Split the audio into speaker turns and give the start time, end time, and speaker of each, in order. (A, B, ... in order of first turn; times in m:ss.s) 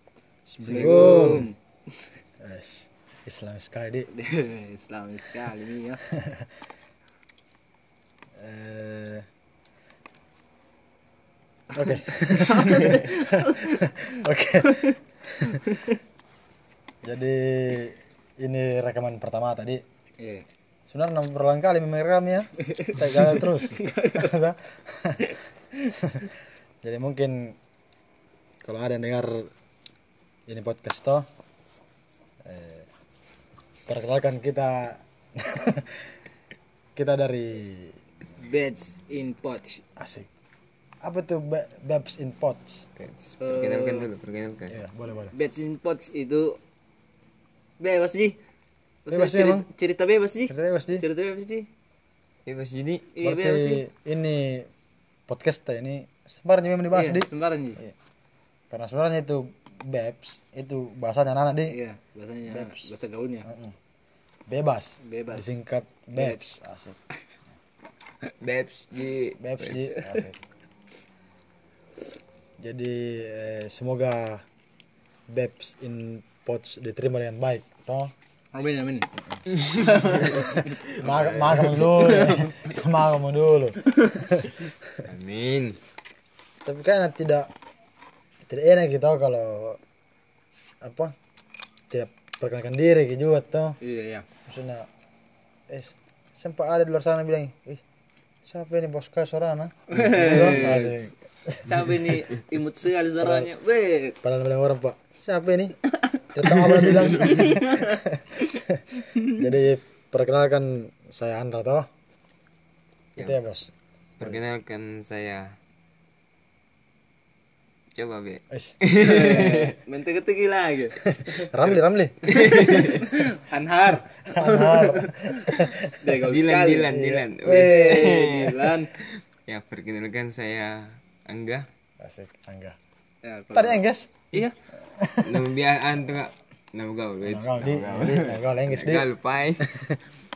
0:00.5-0:01.5 A
0:00.6-0:02.0 B
0:02.4-0:04.1 A
0:04.1-0:06.0 B
0:06.2-0:06.4 A
0:08.4-0:09.2 A
0:11.7-0:15.6 A
0:12.4-0:13.8 B
0:15.6-0:15.9 B
0:17.0-0:19.8 A
0:20.2-0:20.4 B
0:20.9-0:25.3 A
0:22.7-0:24.3 B
0:25.9-0:26.3 A
0:26.8-0:27.6 A
0:28.6-0:29.5 A
0:30.5-0:31.2 A
0:32.4-0:32.8 A
0:33.9-0:36.1 A
0:37.0-0:38.0 A
0:38.4-0:39.8 B
0:40.0-0:40.3 A
0:41.0-0:42.8 A
0:43.0-0:44.8 C
0:43.4-0:44.1 B
0:44.7-0:45.3 A
0:45.3-0:46.6 B
0:47.8-0:48.4 B
0:49.0-0:51.7 B
0:49.1-0:49.7 A
0:50.5-0:51.0 A
0:52.4-0:53.1 C
0:53.1-0:53.8 B
0:53.2-0:54.7 A
0:55.3-0:57.3 A
0:56.9-0:57.8 B
0:58.7-1:01.8 A
1:01.7-1:03.5 B
1:02.5-1:02.9 A
1:03.4-1:03.7 A
1:04.5-1:07.0 A
1:05.0-1:05.5 B
1:06.2-1:06.4 B
1:08.4-1:09.9 C
1:09.4-1:10.4 A
1:12.6-1:14.4 A
1:15.3-1:18.1 A
1:18.5-1:20.8 B
1:20.8-1:22.7 C
1:21.0-1:24.7 A
1:21.9-1:22.5 B
1:25.0-1:25.8 C
1:26.6-1:27.5 A
1:28.5-1:29.8 A
1:30.8-1:31.1 A
1:31.9-1:33.8 A
1:33.8-1:34.2 B
1:34.4-1:34.9 A
1:35.7-1:37.8 A
1:38.4-1:42.1 A
1:39.9-1:41.0 B
1:40.1-1:40.7 C
1:41.6-1:44.2 B
1:43.2-1:43.5 A
1:44.2-1:51.8 A
1:46.0-1:48.6 B
1:53.2-1:53.7 A
1:54.2-1:55.5 C
1:58.0-1:59.7 C
1:58.5-1:58.8 A
1:59.0-2:01.5 B
2:01.2-2:02.3 A
2:02.3-2:03.1 C
2:02.3-2:05.4 B
2:04.3-2:06.1 A
2:06.0-2:08.9 B
2:06.2-2:11.7 C
2:06.8-2:08.0 A
2:12.0-2:12.8 A
2:13.2-2:14.5 B
2:13.5-2:14.1 A
2:14.8-2:15.4 A
2:15.2-2:19.7 C
2:17.2-2:19.1 A
2:19.6-2:20.0 A